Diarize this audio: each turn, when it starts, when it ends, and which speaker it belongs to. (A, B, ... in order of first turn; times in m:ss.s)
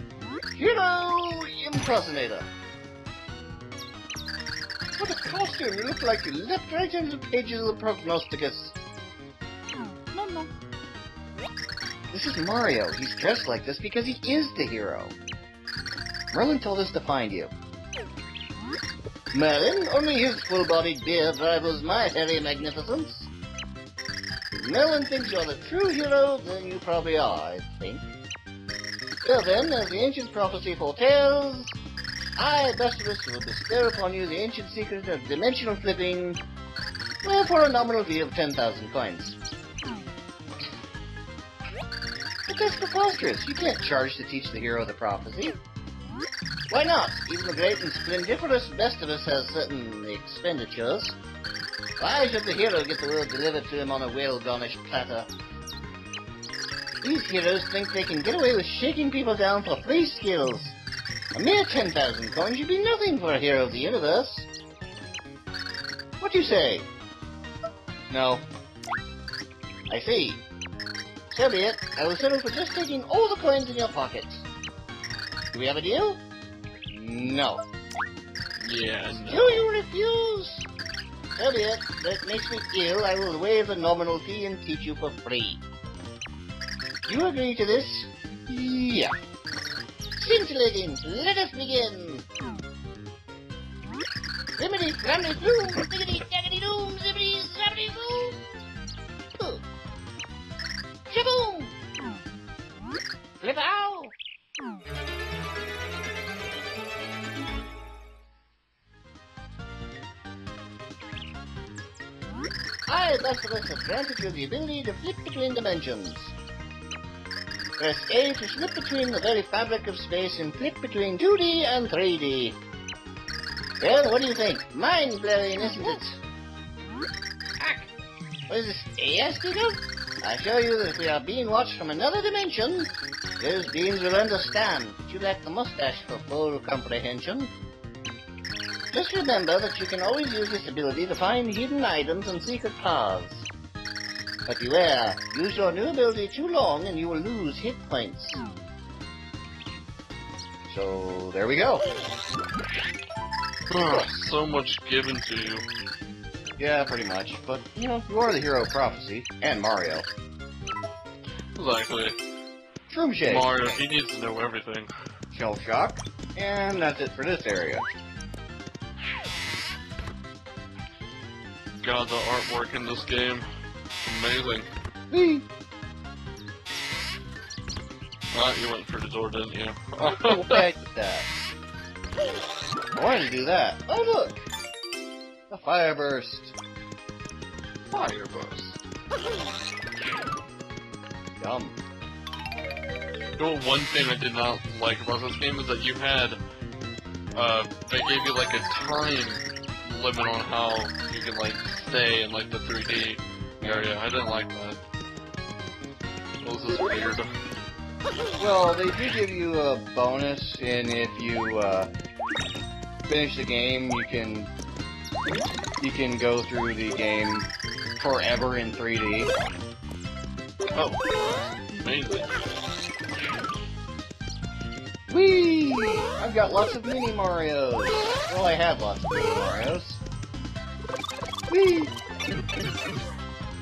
0:00.6-0:02.5 A
0:05.0-0:08.8 A
0:10.2-0:10.4 A
0:12.1-0:15.1 A
0:16.3-0:17.5 A
0:19.3-0:23.3 A
0:24.5-0:28.1 A
0:29.2-0:31.8 A
0:32.4-0:36.4 A
0:37.2-0:39.4 A
0:42.5-0:45.6 A
0:46.7-0:51.2 A
0:52.0-0:55.3 A
0:57.0-1:00.8 A
1:01.3-1:04.5 A
1:06.2-1:06.9 A
1:08.1-1:08.5 A
1:09.9-1:10.4 A
1:11.3-1:14.5 A
1:15.5-1:16.2 A
1:16.9-1:17.6 A
1:18.6-1:19.6 B
1:19.1-1:20.7 A
1:21.3-1:25.6 A
1:27.0-1:29.1 A
1:30.2-1:32.2 A
1:34.6-1:38.6 A
1:39.4-1:39.6 A
1:41.1-1:41.7 A
1:43.4-1:44.1 A
1:52.9-1:56.3 A
1:57.8-2:02.6 A
2:03.8-2:06.2 A
2:07.6-2:07.9 A
2:08.5-2:17.5 A
2:18.9-2:23.5 A
2:24.5-2:28.4 A
2:30.7-2:31.8 A
2:33.7-2:35.7 B
2:33.8-2:34.1 A
2:36.6-2:40.1 A
2:41.6-2:42.2 B
2:42.9-2:43.8 A
2:43.2-2:44.9 B
2:45.3-2:47.9 A
2:51.8-2:53.4 B
2:54.0-2:54.7 B
2:55.1-2:55.4 A
2:58.3-3:00.6 B
3:00.0-3:01.3 A
3:02.9-3:04.4 A
3:05.5-3:06.5 A
3:07.9-3:08.8 B
3:11.4-3:11.8 A
3:13.4-3:16.4 B
3:17.3-3:24.8 B
3:23.6-3:23.9 A
3:26.4-3:27.3 B
3:28.4-3:31.9 A
3:33.1-3:34.5 A
3:35.8-3:39.3 A
3:40.7-3:42.3 B
3:45.1-3:50.0 A
3:51.5-3:51.9 A